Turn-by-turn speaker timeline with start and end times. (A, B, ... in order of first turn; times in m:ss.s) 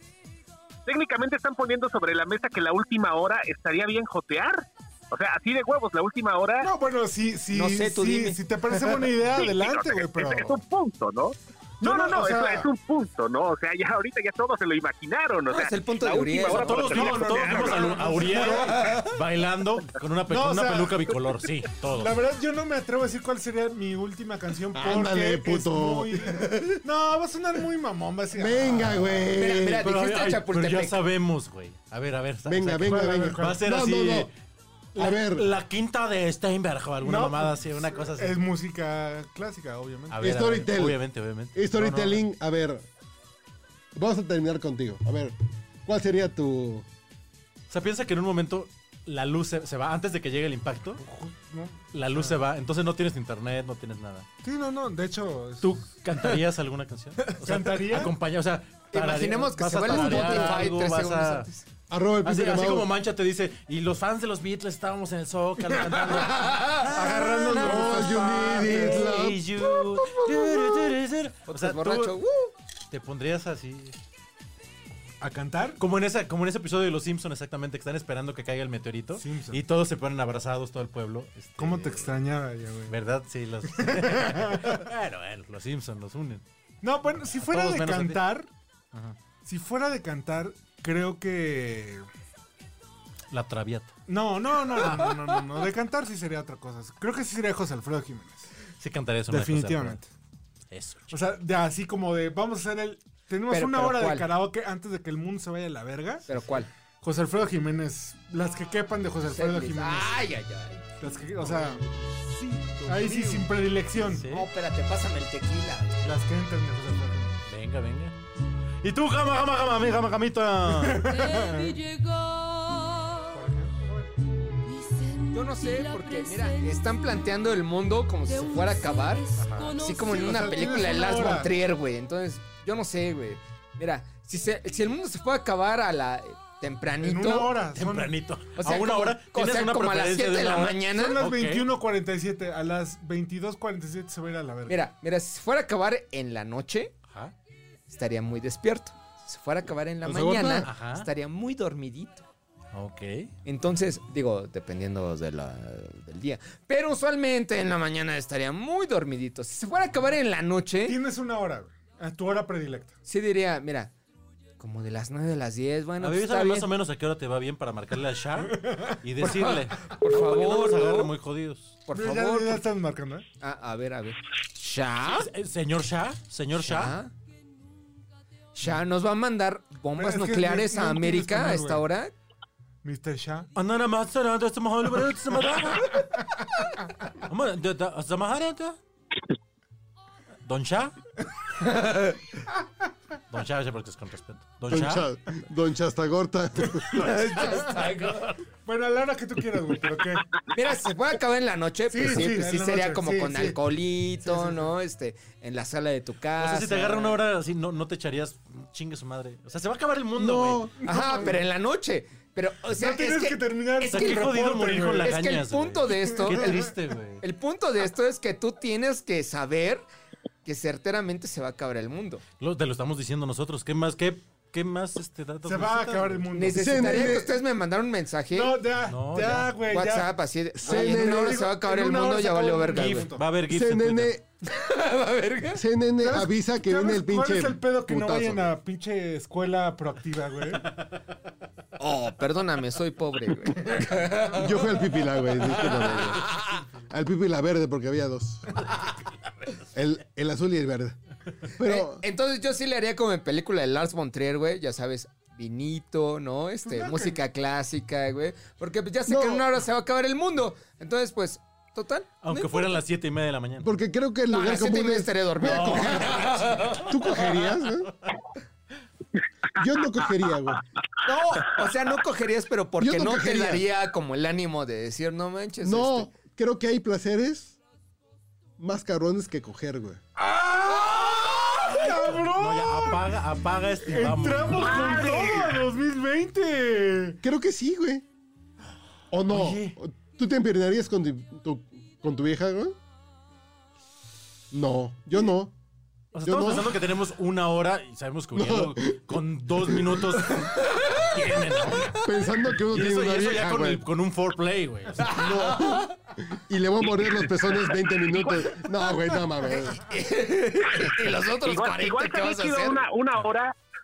0:00.9-0:06.7 A
0:06.6-0:10.6 B
0:07.5-0:08.4 C
0:09.3-0:18.2 A
0:11.8-0:12.7 B
0:15.5-0:16.9 C
0:16.5-0:22.2 D
0:16.8-0:19.1 B
0:20.3-0:21.1 B
0:21.9-0:29.2 B
0:24.7-0:26.8 E
0:28.3-0:29.9 E
0:29.4-0:31.0 C
0:29.8-0:34.3 D
0:32.5-0:34.3 E
0:32.8-0:33.6 B
0:35.0-0:35.5 E
0:35.0-0:38.4 D
0:37.0-0:40.4 B
0:40.1-0:42.2 D
0:40.2-0:41.0 E
0:41.5-0:42.9 E
0:43.9-0:45.4 E
0:45.9-0:46.9 E
0:47.7-0:51.0 D
0:51.0-0:52.4 B
0:51.9-0:54.3 D
0:54.4-0:55.9 B
0:55.6-1:01.5 D
0:57.4-0:58.2 B
0:58.9-1:01.6 C
1:00.0-1:00.3 E
1:01.9-1:02.9 E
1:02.2-1:12.2 D
1:06.3-1:06.9 C
1:06.8-1:09.1 B
1:07.6-1:11.0 E
1:11.5-1:12.5 C
1:12.9-1:14.0 D
1:15.2-1:15.8 B
1:15.8-1:22.1 D
1:19.2-1:19.6 B
1:21.6-1:23.0 B
1:22.9-1:26.4 D
1:23.6-1:24.8 B
1:26.8-1:28.5 B
1:27.3-1:28.2 D
1:29.4-1:32.1 B
1:33.3-1:33.9 D
1:34.1-1:38.5 B
1:34.7-1:35.2 D
1:38.8-1:40.0 D
1:39.3-1:40.1 B
1:40.7-1:41.2 D
1:41.1-1:46.4 B
1:43.5-1:44.3 C
1:46.3-1:46.7 C
1:47.0-1:50.2 B
1:49.3-1:50.9 C
1:51.0-1:51.8 B
1:52.4-1:54.3 B
1:52.9-1:53.5 C
1:54.0-1:54.5 D
1:54.3-1:56.0 C
1:56.0-1:57.4 B
1:57.5-1:58.2 D
1:58.8-2:01.1 D
2:00.7-2:01.8 B
2:01.0-2:03.4 F
2:03.3-2:04.1 B
2:04.6-2:07.3 F
2:05.3-2:09.2 C
2:08.2-2:11.2 F
2:09.4-2:09.8 D
2:09.8-2:17.6 C
2:10.0-2:11.5 B
2:17.0-2:18.2 B
2:17.7-2:21.7 D
2:18.6-2:21.2 C
2:20.9-2:24.9 B
2:24.7-2:26.9 C
2:27.1-2:27.4 D
2:27.9-2:32.2 C
2:30.0-2:30.7 E
2:30.6-2:31.1 D
2:32.7-2:33.3 D
2:33.4-2:41.0 C
2:40.8-2:43.0 B
2:43.1-2:43.9 C
2:44.6-2:46.7 C
2:46.0-2:51.8 D
2:48.5-2:48.9 B
2:49.2-2:51.1 C
2:51.9-2:52.7 C
2:51.9-2:53.3 B
2:53.4-2:55.3 C
2:55.1-2:57.0 D
2:56.6-2:57.1 C
2:58.6-3:02.1 C
3:00.0-3:01.8 B
3:02.8-3:03.5 B
3:03.6-3:06.1 D
3:07.3-3:08.8 D
3:10.4-3:11.0 D
3:11.6-3:12.2 C
3:13.3-3:15.1 D
3:14.7-3:17.1 E
3:16.9-3:17.9 B
3:17.0-3:18.4 C
3:18.6-3:20.3 B
3:20.5-3:27.2 C
3:21.9-3:23.6 B
3:24.2-3:24.7 B
3:26.4-3:30.7 D
3:30.2-3:30.7 E
3:30.8-3:31.4 B
3:30.8-3:34.2 C
3:32.7-3:35.2 B
3:33.9-3:37.2 D
3:35.0-3:36.6 C
3:36.1-3:36.7 B
3:37.2-3:39.8 C
3:40.4-3:42.2 C
3:42.4-3:46.3 D
3:45.4-3:47.2 B
3:46.3-3:48.6 C
3:46.5-3:47.4 E
3:48.3-3:53.2 B
3:48.9-3:49.5 D
3:49.7-3:53.1 C
3:50.6-3:51.5 E
3:52.7-3:54.1 D
3:53.5-3:54.2 E
3:54.4-3:55.6 C
3:55.5-3:58.5 E
3:56.0-4:00.7 B
4:01.8-4:04.7 C
4:04.3-4:06.3 E
4:05.5-4:06.6 C
4:06.9-4:08.6 E
4:09.7-4:12.0 E
4:11.6-4:22.8 C
4:16.7-4:17.2 B
4:19.1-4:19.5 E
4:22.2-4:23.8 D
4:23.6-4:26.2 E
4:24.3-4:27.1 C
4:25.4-4:26.7 D
4:26.7-4:27.9 E
4:29.6-4:30.6 E
4:31.0-4:36.1 C
4:32.8-4:33.7 E
4:35.6-4:37.6 E
4:38.6-4:40.0 E
4:40.2-4:43.1 B
4:41.6-4:45.2 D
4:43.8-4:47.2 B
4:44.6-4:45.5 A
4:47.2-4:48.0 E
4:49.1-4:52.8 E
4:49.3-4:49.8 D
4:54.5-4:55.5 E
4:56.1-5:02.0 D
4:56.2-4:56.8 E
4:58.3-5:00.1 E
5:00.4-5:01.1 C
5:01.9-5:03.8 E
5:02.7-5:05.1 D
5:05.0-5:05.9 C
5:05.1-5:09.8 E
5:08.1-5:08.5 A
5:09.8-5:12.8 C
5:11.4-5:13.5 A